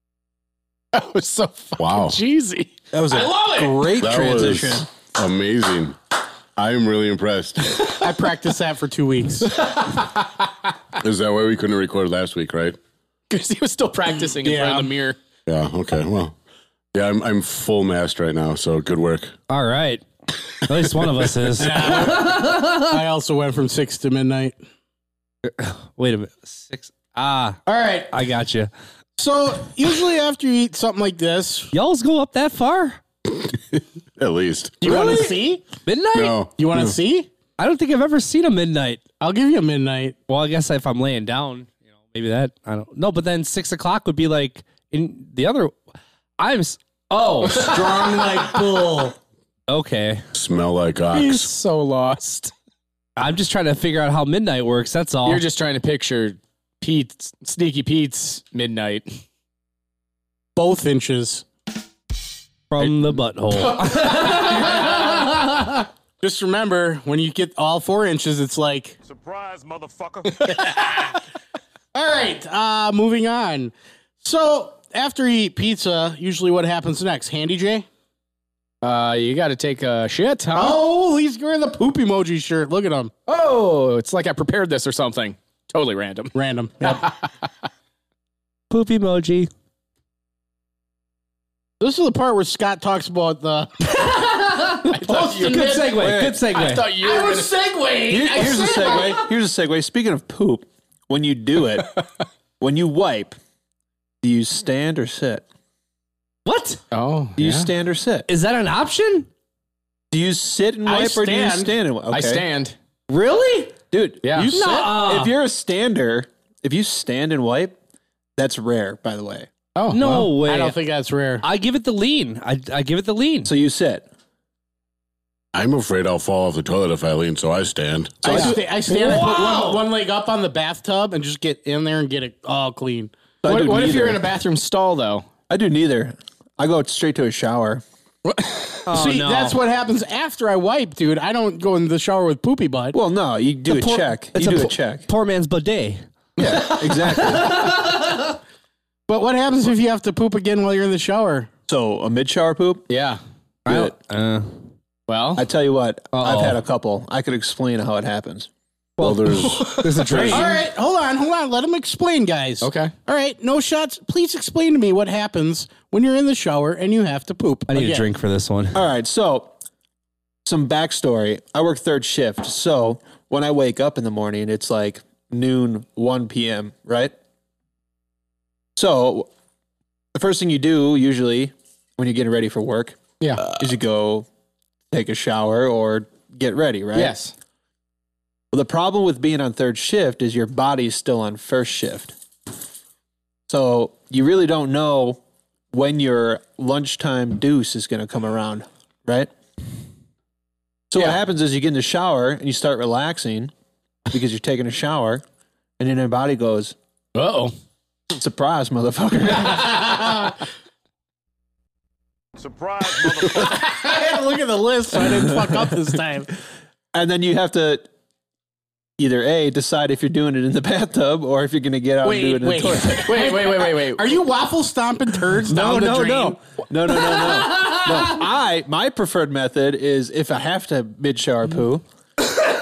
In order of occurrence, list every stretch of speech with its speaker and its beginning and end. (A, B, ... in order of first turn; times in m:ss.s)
0:00.9-0:04.0 A
0:01.8-0:02.2 B
0:02.9-0:04.9 C
0:04.0-0:06.0 B
0:06.6-0:08.0 B
0:08.0-0:09.7 D
0:09.8-0:10.1 A
0:11.0-0:12.8 B
0:13.3-0:15.2 A
0:14.4-0:14.9 D
0:15.4-0:16.4 B
0:16.9-0:19.3 B
0:19.5-0:23.0 E
0:21.6-0:24.6 D
0:25.4-0:28.7 E
0:27.6-0:28.1 D
0:29.2-0:31.7 D
0:31.7-0:33.0 E
0:33.3-0:35.3 B
0:34.8-0:35.6 D
0:35.8-0:36.4 E
0:36.1-0:36.9 B
0:36.6-0:37.3 D
0:37.6-0:39.0 E
0:39.2-0:40.2 D
0:40.3-0:45.8 E
0:46.4-0:47.8 E
0:47.5-0:49.1 D
0:49.7-0:50.3 E
0:50.3-0:51.5 B
0:51.1-0:52.5 A
0:53.2-0:55.4 E
0:55.2-0:59.2 A
1:00.6-1:01.4 D
1:02.7-1:05.8 E
1:04.3-1:05.1 D
1:06.2-1:09.0 D
1:10.4-1:11.2 D
1:11.9-1:17.8 D
1:18.8-1:20.8 A
1:20.5-1:23.1 D
1:23.3-1:27.1 A
1:26.3-1:27.1 D
1:28.7-1:29.5 E
1:31.8-1:34.0 D
1:33.9-1:34.8 E
1:35.0-1:35.9 D
1:35.0-1:39.1 A
1:35.0-1:36.4 C
1:35.4-1:36.9 E
1:37.0-1:39.2 D
1:38.1-1:42.0 C
1:42.6-1:43.4 C
1:44.2-1:45.4 C
1:46.4-1:46.8 E
1:46.9-1:47.7 A
1:47.4-1:48.3 C
1:48.3-1:49.3 E
1:50.1-1:52.4 C
1:50.8-1:51.7 D
1:52.1-1:52.7 A
1:53.1-1:53.7 E
1:53.9-1:57.7 C
1:54.2-1:54.5 A
1:54.4-1:55.3 E
1:58.4-1:59.5 C
1:59.8-2:00.3 A
1:59.9-2:00.8 E
2:00.1-2:01.4 D
2:01.4-2:03.5 E
2:03.4-2:04.1 C
2:05.5-2:08.3 B
2:08.2-2:08.6 C
2:08.2-2:13.1 D
2:08.3-2:09.8 E
2:13.4-2:14.2 C
2:13.4-2:15.2 A
2:15.5-2:17.8 C
2:18.2-2:18.8 A
2:18.8-2:19.6 E
2:18.9-2:23.0 D
2:22.9-2:25.0 C
2:23.7-2:26.0 E
2:26.4-2:27.7 C
2:26.4-2:26.7 A
2:27.0-2:28.3 E
2:29.1-2:31.5 D
2:31.7-2:32.9 C
2:32.9-2:33.2 A
2:33.6-2:34.6 E
2:33.7-2:33.9 C
2:35.1-2:35.4 A
2:35.4-2:38.5 C
2:36.1-2:36.6 E
2:39.0-2:40.6 E
2:39.0-2:39.8 B
2:39.4-2:40.4 A
2:40.1-2:40.4 C
2:40.2-2:48.0 D
2:42.6-2:42.9 A
2:47.7-2:48.8 E
2:48.7-2:49.5 C
2:50.4-2:57.1 C
2:58.8-2:59.3 C
3:00.1-3:04.3 C
3:04.9-3:07.2 C
3:06.9-3:07.3 A
3:08.5-3:12.1 C
3:13.5-3:15.2 C
3:15.7-3:19.3 C
3:20.9-3:23.5 C
3:24.1-3:25.2 C
3:25.8-3:26.7 C
3:27.1-3:27.5 A
3:28.1-3:30.2 C
3:33.1-3:36.3 D
3:35.0-3:35.6 C
3:36.9-3:37.9 C
3:39.0-3:43.1 C
3:42.0-3:46.4 D
3:43.0-3:44.0 A
3:45.4-3:51.8 C
3:47.5-3:48.1 E